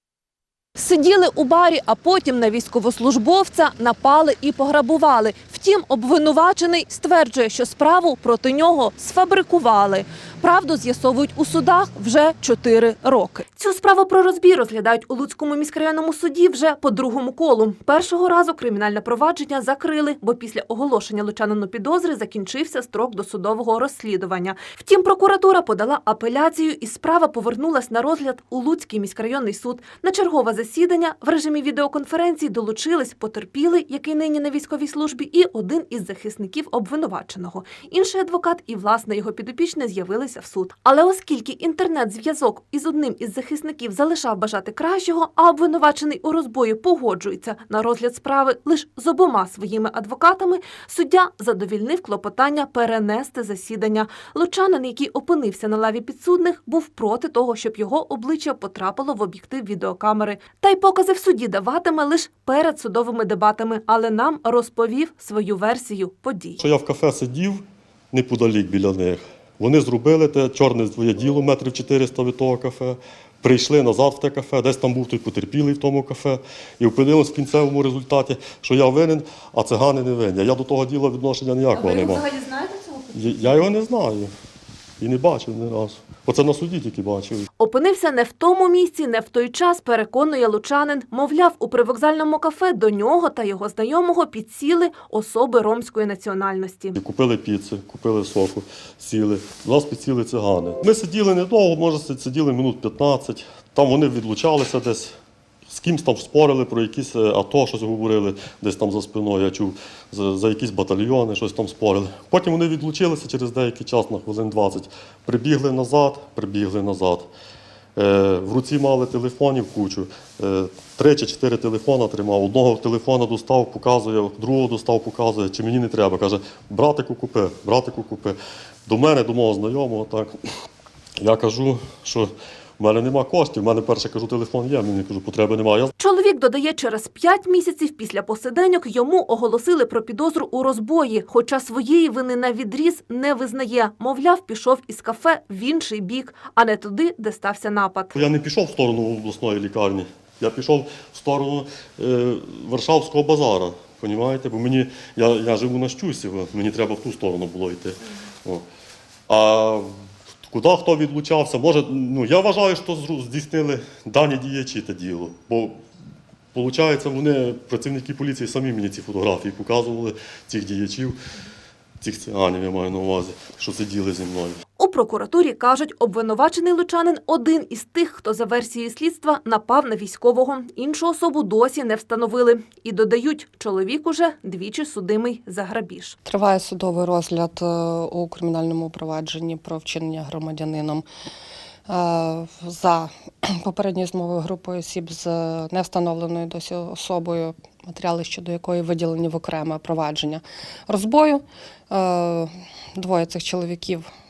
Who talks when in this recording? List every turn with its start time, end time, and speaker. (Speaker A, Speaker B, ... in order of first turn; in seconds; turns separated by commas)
Speaker A: 0.8-66.6, Speaker B: 66.6-82.3, Speaker A: 81.8-83.0, Speaker B: 83.1-84.3, Speaker B: 85.0-87.5, Speaker A: 87.6-97.0, Speaker B: 97.0-105.1, Speaker B: 105.7-117.3, Speaker B: 118.0-130.4, Speaker B: 131.2-135.9, Speaker A: 136.0-148.2, Speaker B: 148.2-158.7, Speaker B: 159.3-159.9, Speaker B: 160.5-165.8, Speaker B: 166.5-171.2, Speaker B: 172.0-174.6, Speaker A: 174.8-186.2, Speaker C: 186.2-191.1, Speaker C: 191.9-204.1